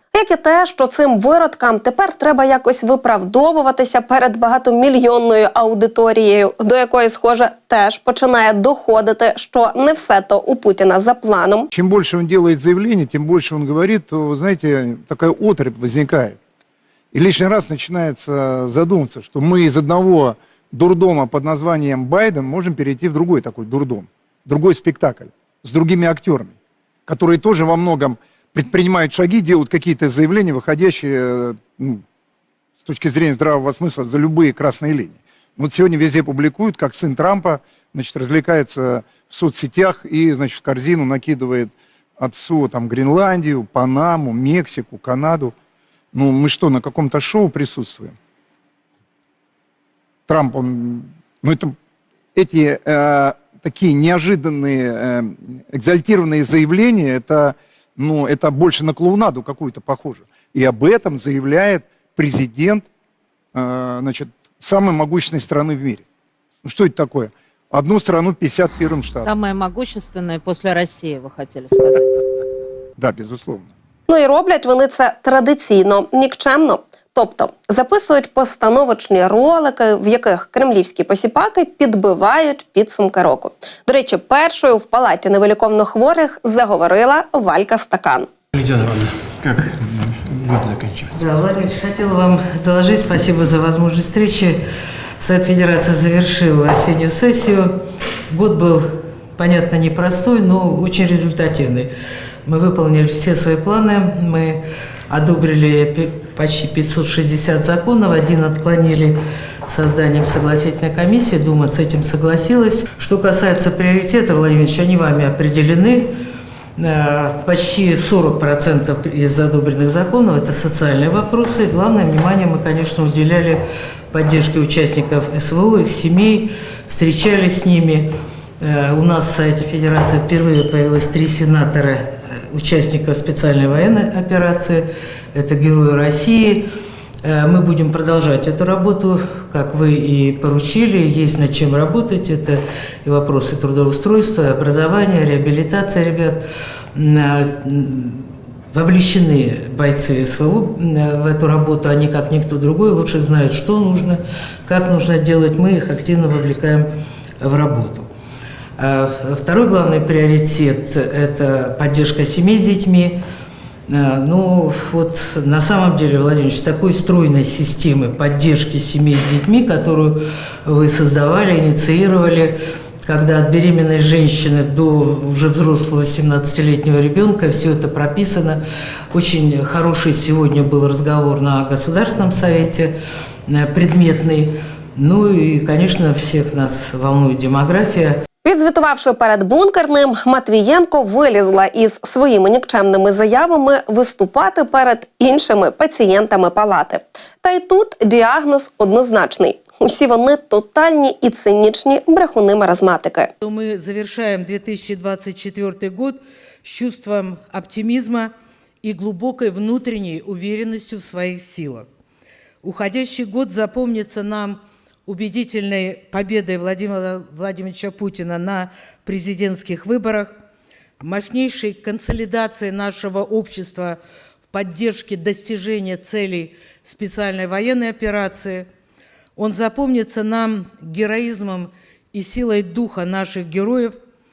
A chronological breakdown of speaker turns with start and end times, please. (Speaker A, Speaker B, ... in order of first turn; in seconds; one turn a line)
Speaker A: 0.1-11.7
Speaker B: 11.7-16.4
Speaker B: 17.1-26.5
Speaker B: 27.1-32.0
Speaker B: 32.8-45.5
Speaker B: 46.1-48.1
Speaker B: 50.3-51.7
Speaker B: 52.4-62.9
Speaker B: 63.5-66.0
Speaker B: 66.6-69.3
Speaker C: 69.2-72.1
Speaker B: 73.0-73.7
Speaker A: 74.1-88.3
Speaker D: 88.6-91.1
Speaker E: 91.1-94.6
Speaker E: 95.2-97.8
Speaker E: 98.3-101.9
Speaker E: 102.4-116.2
Speaker E: 116.8-136.7
Speaker E: 137.2-158.1
Speaker E: 158.8-163.2
Speaker E: 163.9-182.9
Speaker E: 183.5-188.2
Speaker A: 188.4-203.3
Speaker E: 203.4-211.9
Speaker E: 212.6-220.3
Speaker E: 221.0-224.0
Speaker E: 224.5-228.7
Speaker E: 229.3-234.0